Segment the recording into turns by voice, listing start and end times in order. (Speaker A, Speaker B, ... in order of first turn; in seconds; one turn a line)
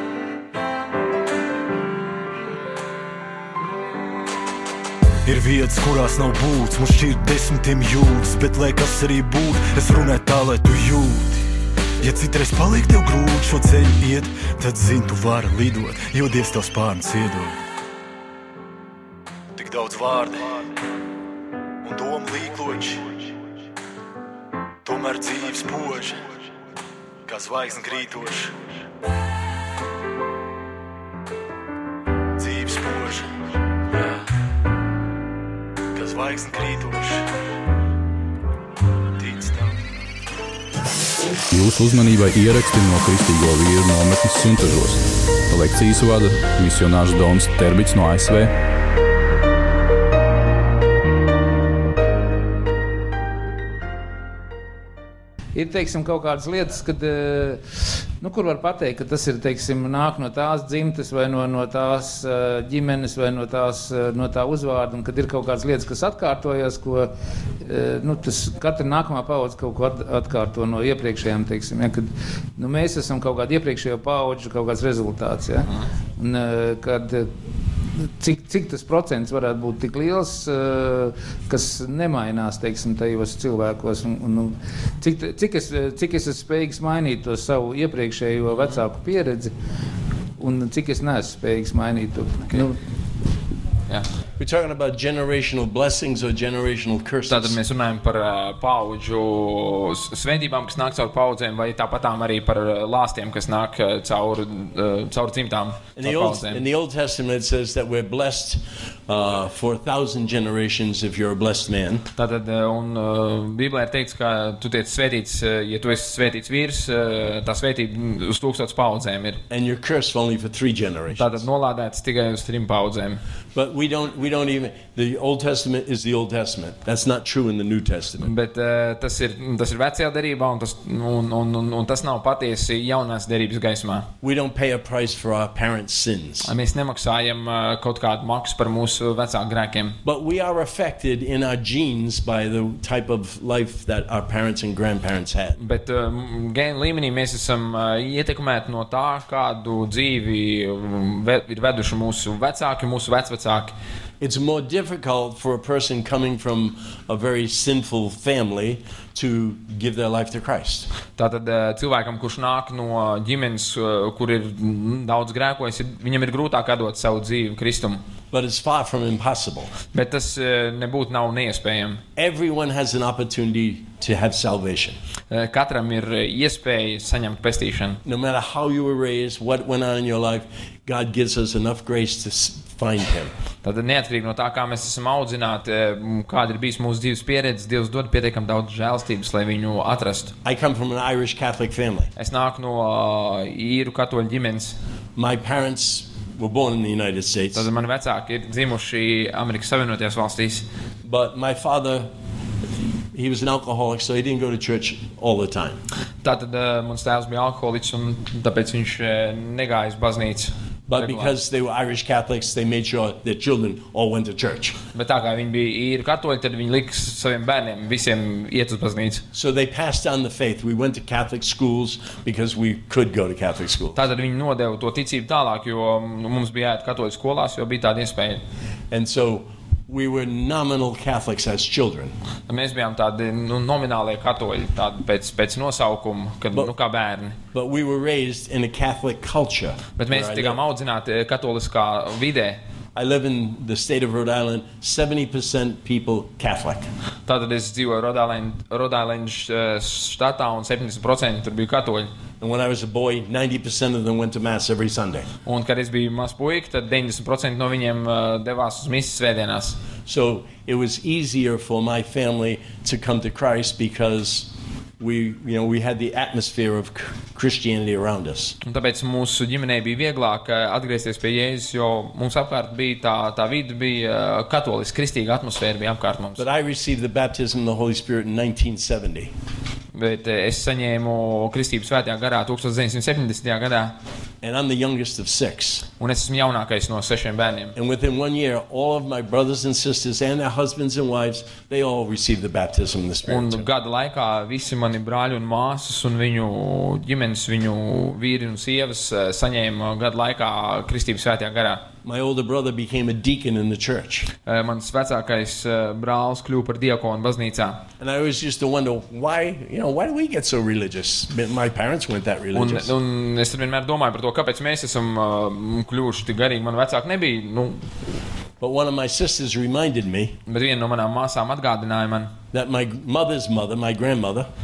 Speaker A: 5.2-11.4
Speaker A: 12.0-17.6
Speaker A: 19.5-20.7
Speaker A: 21.8-23.3
Speaker A: 24.8-26.2
Speaker A: 27.2-28.6
Speaker A: 32.4-33.3
Speaker A: 33.9-34.2
Speaker A: 35.9-37.3
Speaker A: 39.2-39.8
Speaker B: 41.5-48.5
Speaker C: 55.5-57.6
Speaker C: 58.2-77.3
Speaker C: 78.0-89.5
Speaker C: 90.4-92.8
Speaker D: 94.4-97.6
Speaker E: 97.3-106.6
Speaker D: 106.0-112.1
Speaker E: 112.2-119.4
Speaker D: 119.5-121.4
Speaker E: 121.1-123.2
Speaker D: 123.5-128.3
Speaker E: 128.2-134.1
Speaker D: 134.2-136.5
Speaker E: 136.4-140.0
Speaker D: 140.0-145.6
Speaker E: 145.6-153.7
Speaker D: 154.2-160.9
Speaker E: 161.2-168.0
Speaker D: 168.3-169.7
Speaker E: 169.9-172.0
Speaker D: 172.2-175.0
Speaker E: 175.3-178.0
Speaker D: 178.0-183.3
Speaker E: 183.6-190.3
Speaker D: 190.4-192.1
Speaker E: 192.2-194.8
Speaker D: 195.2-197.7
Speaker E: 197.5-200.7
Speaker D: 201.0-202.1
Speaker D: 203.1-205.8
Speaker E: 206.2-211.3
Speaker D: 210.9-214.8
Speaker E: 214.9-219.2
Speaker D: 219.3-224.0
Speaker E: 223.9-228.4
Speaker D: 228.9-232.1
Speaker E: 232.5-237.4
Speaker D: 237.5-240.6
Speaker E: 240.0-242.6
Speaker D: 242.9-246.9
Speaker E: 247.2-252.1
Speaker D: 252.4-255.3
Speaker E: 255.4-259.8
Speaker D: 260.1-268.6
Speaker E: 268.6-276.4
Speaker D: 276.4-279.3
Speaker E: 279.9-284.0
Speaker D: 284.4-285.9
Speaker E: 286.0-287.7
Speaker D: 287.8-293.7
Speaker E: 293.3-301.9
Speaker D: 302.0-304.3
Speaker E: 304.4-307.9
Speaker D: 308.0-312.9
Speaker E: 312.5-317.9
Speaker D: 318.6-320.4
Speaker E: 320.5-322.3
Speaker D: 322.5-324.5